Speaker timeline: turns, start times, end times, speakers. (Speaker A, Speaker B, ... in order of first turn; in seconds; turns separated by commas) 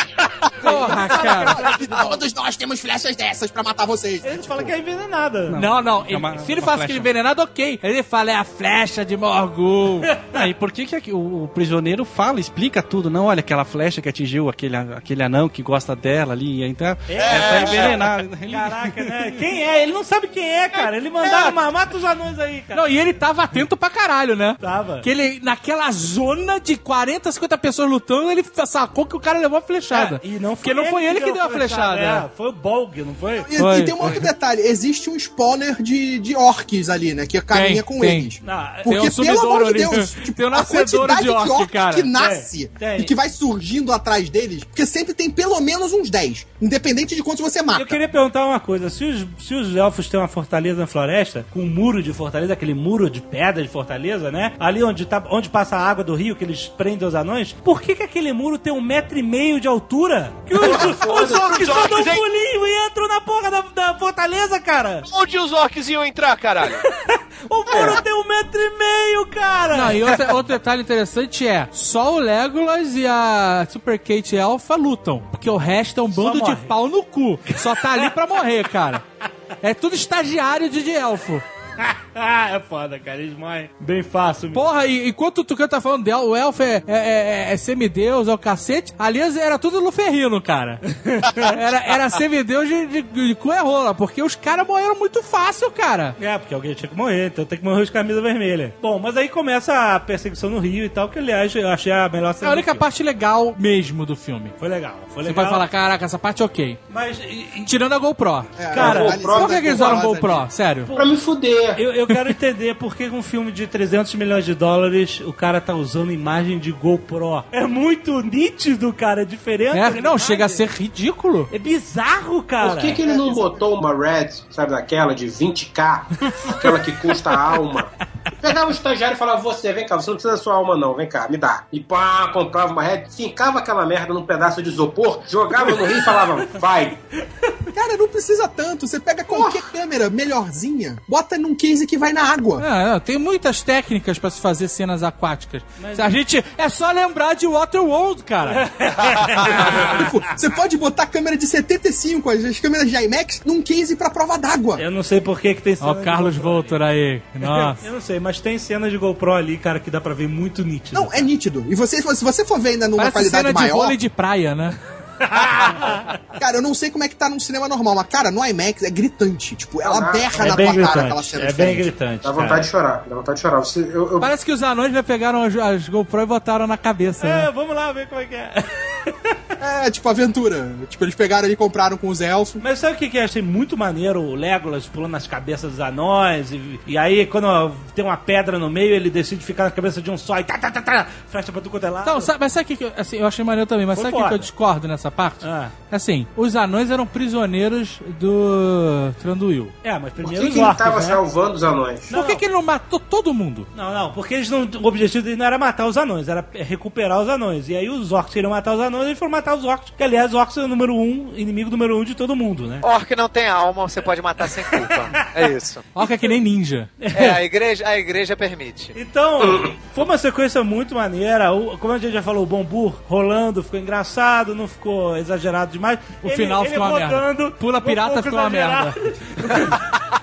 Speaker A: 0.4-4.7, Speaker B: 0.6-1.6, Speaker C: 0.6-1.7, Speaker C: 4.2-5.6, Speaker D: 5.5-7.1, Speaker B: 5.5-10.1, Speaker D: 10.3-19.2, Speaker C: 17.1-22.9, Speaker E: 17.2-18.1, Speaker B: 21.2-21.5, Speaker B: 22.7-32.2, Speaker C: 24.6-25.1, Speaker C: 29.9-33.5, Speaker A: 33.4-48.0, Speaker B: 33.5-34.2, Speaker B: 37.5-38.3, Speaker C: 38.4-38.9, Speaker B: 38.9-42.1, Speaker C: 42.1-43.1, Speaker C: 47.7-65.1, Speaker F: 60.6-61.5, Speaker E: 61.4-62.2, Speaker E: 65.0-66.8, Speaker C: 66.7-70.3, Speaker F: 67.7-68.0, Speaker B: 69.7-79.0, Speaker C: 76.1-76.7, Speaker C: 77.7-78.1, Speaker B: 79.6-81.4, Speaker C: 81.8-84.7, Speaker B: 84.5-90.8, Speaker C: 90.9-91.6, Speaker B: 91.3-96.2, Speaker C: 96.2-102.8, Speaker B: 102.4-104.5, Speaker C: 104.6-105.6, Speaker B: 105.2-106.8, Speaker C: 106.9-107.7, Speaker B: 107.6-108.7, Speaker A: 108.6-110.5, Speaker C: 108.7-109.3, Speaker F: 108.8-109.9, Speaker B: 109.3-110.9, Speaker C: 110.8-111.2, Speaker F: 110.9-111.8, Speaker C: 111.7-120.6, Speaker B: 119.7-121.5, Speaker C: 121.5-123.0, Speaker F: 122.6-137.0, Speaker A: 123.0-123.6, Speaker A: 137.7-142.6, Speaker B: 142.6-148.7, Speaker C: 145.8-146.2, Speaker C: 148.4-150.1, Speaker B: 149.4-149.8, Speaker A: 149.5-154.8, Speaker C: 154.8-156.8, Speaker B: 155.8-157.8, Speaker C: 157.4-161.3, Speaker A: 160.9-163.9, Speaker B: 163.0-164.8, Speaker C: 165.2-166.2, Speaker A: 166.4-171.9, Speaker F: 169.8-170.7, Speaker C: 170.4-172.7, Speaker F: 172.2-174.3, Speaker B: 174.2-177.5, Speaker C: 177.2-179.4, Speaker A: 179.6-182.6, Speaker C: 182.6-192.3, Speaker B: 192.0-199.7, Speaker C: 193.9-194.5, Speaker C: 195.4-195.7, Speaker C: 199.8-201.2, Speaker F: 200.2-202.1, Speaker C: 202.1-202.4, Speaker B: 202.1-203.7, Speaker C: 203.7-212.8, Speaker G: 212.8-215.8, Speaker C: 214.6-215.3, Speaker B: 215.9-216.9, Speaker C: 216.0-216.3, Speaker C: 217.0-217.4, Speaker G: 217.1-218.9, Speaker C: 218.9-229.8, Speaker F: 219.4-219.7, Speaker B: 226.2-228.9